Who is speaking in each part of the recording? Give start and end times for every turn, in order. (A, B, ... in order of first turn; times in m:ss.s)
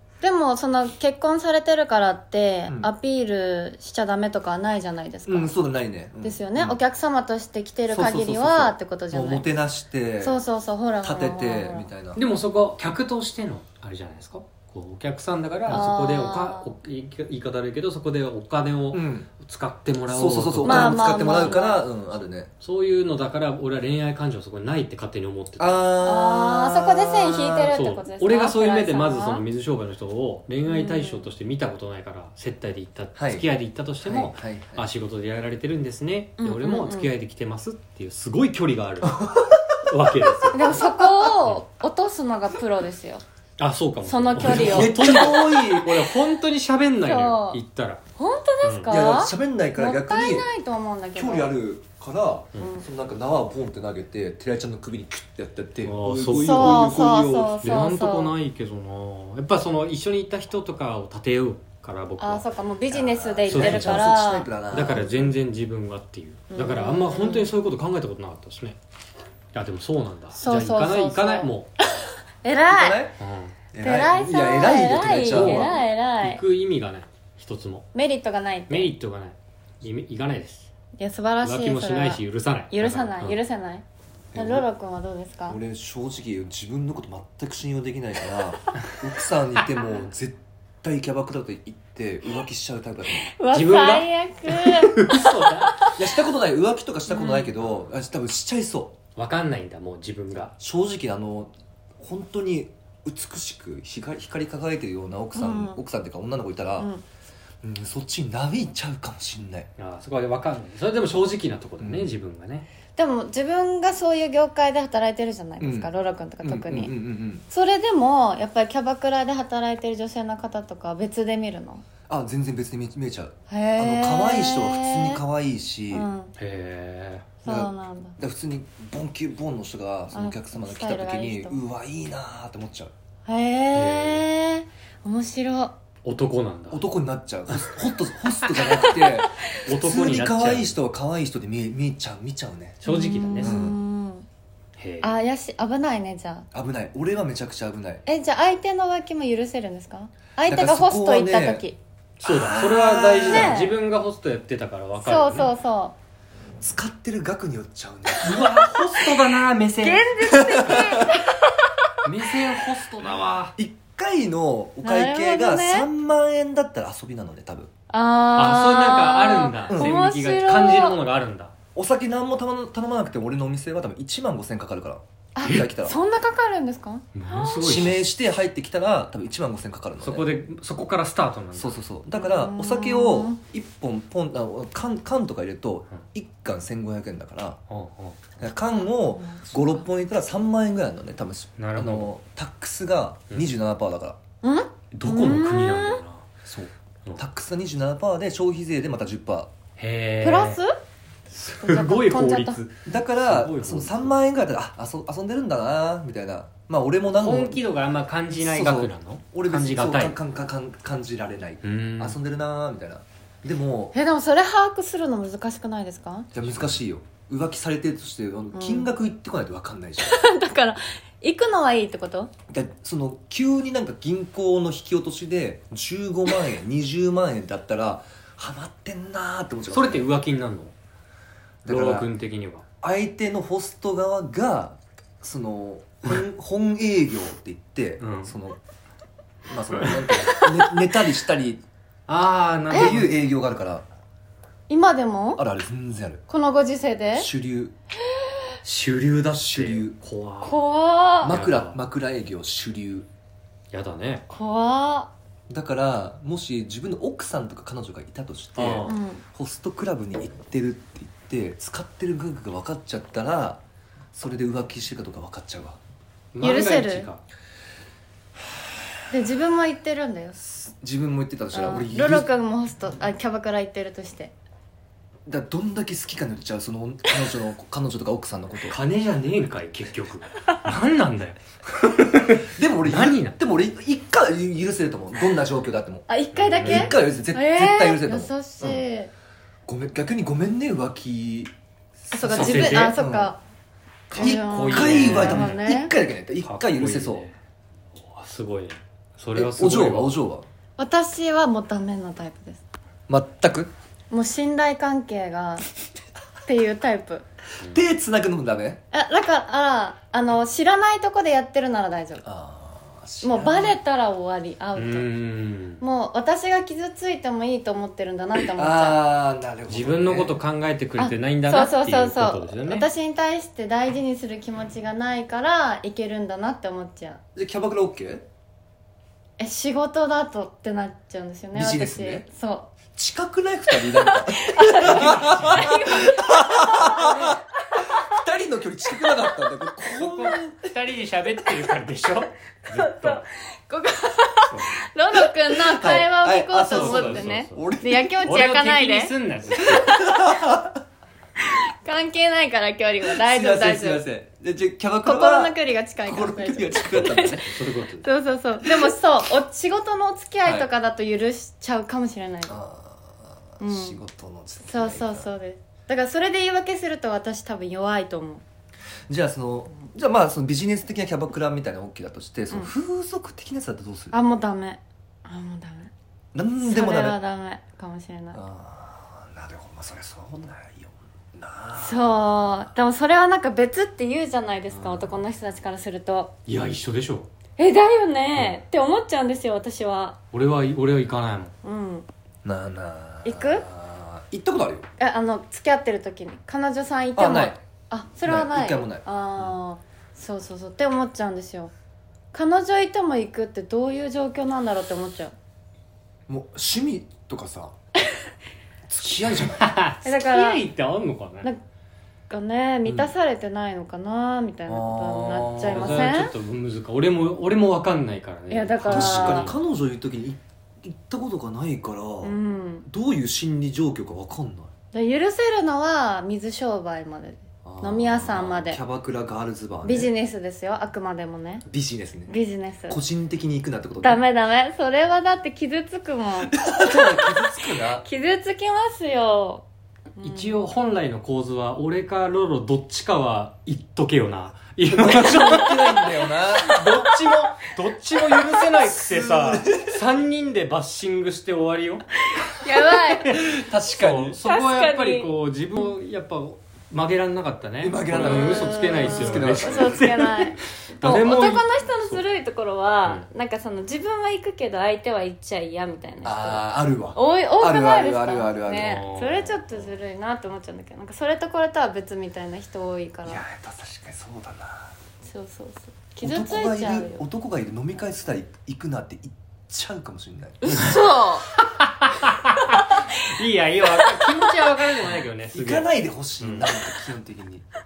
0:00.2-0:05.5 A
0:05.3-0:06.8 B
0:06.2-0:09.5 A
0:07.9-0:10.4 B
0:10.2-0:11.9 A
0:11.0-0:12.2 B
0:12.2-0:21.6 C
0:15.7-0:16.7 A
0:18.9-0:19.3 B
0:20.1-0:22.5 B
0:20.6-0:21.9 A
0:22.6-0:25.8 C
0:25.6-0:27.7 B
0:26.0-0:29.4 A
0:27.6-0:39.2 C
0:30.6-0:31.3 A
0:33.2-0:33.4 B
0:34.0-0:34.9 B
0:36.4-0:37.1 A
0:39.0-0:39.8 B
0:39.8-0:40.7 C
0:40.5-0:43.2 A
0:40.6-0:41.3 B
0:43.6-0:48.0 C
0:44.0-0:45.3 A
0:44.4-0:46.1 B
0:47.0-0:47.6 A
0:48.2-0:51.5 A
0:48.6-0:48.9 C
0:48.9-0:50.5 B
0:51.1-0:57.6 B
0:52.6-0:52.8 A
0:55.8-0:56.8 C
0:56.4-0:58.3 A
0:57.6-1:02.4 C
1:02.2-1:04.5 A
1:02.9-1:05.3 B
1:03.5-1:08.8 C
1:06.5-1:07.5 A
1:09.5-1:11.7 C
1:10.3-1:13.0 A
1:12.7-1:13.2 B
1:13.2-1:13.6 C
1:13.7-1:15.8 B
1:13.8-1:16.4 A
1:15.1-1:17.9 C
1:17.9-1:18.9 A
1:18.7-1:20.7 C
1:21.0-1:25.6 A
1:21.4-1:23.4 C
1:24.3-1:24.7 B
1:25.5-1:33.3 B
1:33.2-1:36.0 A
1:33.5-1:36.0 C
1:35.9-1:39.0 B
1:37.1-1:37.5 A
1:39.2-1:40.5 C
1:40.6-1:46.9 B
1:45.3-1:45.8 A
1:46.8-1:47.0 A
1:47.6-1:49.7 B
1:49.8-1:52.7 C
1:51.8-1:52.1 B
1:53.0-1:56.9 A
1:55.6-1:55.9 B
1:56.4-1:57.4 B
1:57.5-2:01.8 A
2:02.1-2:06.1 B
2:03.5-2:05.2 A
2:05.9-2:06.3 A
2:06.4-2:07.3 C
2:07.4-2:08.2 A
2:07.4-2:12.9 B
2:10.1-2:11.6 A
2:13.2-2:15.7 A
2:13.7-2:14.2 C
2:16.0-2:16.8 C
2:16.7-2:22.8 B
2:18.5-2:19.6 A
2:19.6-2:20.8 C
2:22.8-2:23.7 C
2:22.8-2:24.3 A
2:23.4-2:23.8 B
2:24.8-2:25.1 C
2:25.0-2:26.5 A
2:26.5-2:28.0 B
2:28.0-2:31.8 A
2:30.5-2:31.7 B
2:32.2-2:35.5 C
2:32.2-2:33.6 B
2:33.2-2:33.7 A
2:35.0-2:36.0 A
2:36.6-2:38.6 B
2:38.2-2:40.3 C
2:39.8-2:41.5 A
2:40.2-2:41.2 B
2:42.0-2:43.5 C
2:43.6-2:47.7 B
2:44.8-2:45.9 A
2:47.9-2:51.0 A
2:48.4-2:51.5 C
2:49.7-2:50.0 B
2:51.7-2:56.0 B
2:55.3-2:57.8 A
2:57.1-2:58.0 C
2:57.6-3:00.3 B
3:00.0-3:01.8 C
3:01.5-3:07.6 B
3:02.2-3:03.4 A
3:07.7-3:08.2 C
3:08.4-3:14.2 B
3:08.6-3:09.8 A
3:11.6-3:12.1 C
3:14.4-3:16.0 A
3:14.9-3:16.5 C
3:16.5-3:19.5 B
3:19.8-3:20.6 C
3:20.2-3:20.7 A
3:21.3-3:24.1 C
3:21.6-3:22.6 A
3:22.9-3:27.6 B
3:27.2-3:30.2 C
3:28.4-3:33.9 B
3:31.6-3:32.2 C
3:33.9-3:36.3 A
3:36.3-3:40.2 B
3:36.4-3:36.7 C
3:38.5-3:38.9 A
3:40.0-3:42.3 A
3:42.5-3:50.1 B
3:49.7-3:50.7 C
3:51.6-3:52.1 B
3:51.6-3:52.6 C
3:52.8-3:58.6 B
3:58.0-3:58.3 C
3:59.5-4:01.6 B
3:59.8-4:00.8 C
4:02.1-4:03.1 C
4:02.7-4:03.0 A
4:02.7-4:03.8 B
4:04.7-4:05.4 A
4:05.4-4:06.2 B
4:06.3-4:07.3 A
4:07.2-4:07.7 B
4:08.6-4:10.6 C
4:08.9-4:10.0 B
4:10.4-4:11.4 A
4:11.2-4:13.1 B
4:11.3-4:11.8 C
4:13.7-4:14.2 C
4:14.3-4:15.1 A
4:15.5-4:23.6 B
4:18.6-4:19.0 C
4:18.9-4:19.2 A
4:24.1-4:25.8 B
4:26.3-4:27.2 C
4:26.4-4:27.1 A
4:29.1-4:30.4 A
4:30.4-4:32.3 B
4:31.5-4:34.3 A
4:35.2-4:38.8 B
4:38.6-4:43.4 C
4:42.2-4:48.8 B
4:46.1-4:49.1 A
4:46.3-4:46.9 C
4:49.7-4:51.5 B
4:52.0-4:53.3 B
4:52.1-4:53.4 A
4:52.3-4:53.0 C
4:54.1-4:57.2 B
4:54.1-4:55.6 C
4:54.1-4:55.9 A
4:56.4-4:57.3 C
4:58.0-5:00.2 C
4:59.3-5:00.5 B
5:00.8-5:02.6 A
5:03.1-5:03.7 B
5:04.1-5:05.7 A
5:06.4-5:07.2 A
5:07.6-5:08.8 B
5:08.9-5:12.2 A
5:12.2-5:13.8 B
5:13.2-5:15.1 A
5:14.8-5:15.8 C
5:15.8-5:19.0 A
5:18.5-5:20.3 B
5:19.7-5:22.9 C
5:21.0-5:27.2 A
5:27.4-5:28.2 B
5:29.4-5:32.7 A
5:31.5-5:32.2 B
5:33.0-5:40.7 B
5:33.7-5:38.1 A
5:34.8-5:35.8 C
5:36.9-5:37.4 C
5:39.9-5:43.2 C
5:42.7-5:49.8 A
5:45.1-5:48.2 B
5:46.6-5:47.7 C
5:48.2-5:49.9 C
5:49.6-5:50.8 B
5:51.4-5:54.1 A
5:53.0-5:57.6 B
5:55.0-6:02.6 A
5:57.4-5:58.1 C
6:02.5-6:05.3 B
6:03.6-6:04.0 A
6:04.6-6:08.4 A
6:09.1-6:14.2 B
6:14.1-6:15.9 A
6:16.3-6:17.2 B
6:16.6-6:18.4 A
6:18.3-6:22.7 B
6:21.7-6:26.3 A
6:24.7-6:25.2 B
6:26.4-6:27.3 C
6:27.6-6:30.2 A
6:30.3-6:31.5 C
6:31.6-6:32.1 A
6:32.4-6:34.9 B
6:33.2-6:33.7 A
6:35.0-6:41.7 A
6:37.2-6:37.6 B
6:38.2-6:39.0 B
6:42.3-6:45.3 A
6:46.3-6:47.7 B
6:48.9-6:49.6 B
6:49.1-6:51.5 C
6:50.0-6:50.6 A
6:52.3-6:56.3 A
6:52.8-6:53.1 B
6:54.7-6:56.1 B
6:55.7-6:59.6 C
6:58.5-6:59.5 A
6:58.9-7:04.7 B
7:02.2-7:02.8 A
7:04.9-7:08.8 A
7:07.6-7:10.1 B
7:09.8-7:11.6 A
7:11.7-7:12.3 B
7:12.3-7:13.0 A
7:12.9-7:14.2 B
7:14.0-7:19.6 A
7:16.6-7:18.0 B
7:20.2-7:20.6 A
7:20.2-7:32.0 C
7:24.9-7:27.0 B
7:28.8-7:29.9 B
7:32.3-7:33.4 A
7:32.7-7:40.4 C
7:33.3-7:34.4 B
7:34.4-7:35.3 A
7:37.8-7:40.3 B
7:38.1-7:53.4 A
7:41.0-7:41.6 C
7:41.0-7:41.6 B
7:46.2-7:49.0 B
7:48.8-7:49.9 C
7:53.2-7:54.9 B
7:55.2-7:57.2 A
7:56.2-8:00.6 B
8:00.6-8:01.4 A
8:00.7-8:01.0 C
8:01.5-8:06.7 C
8:02.8-8:03.2 A
8:05.5-8:07.6 B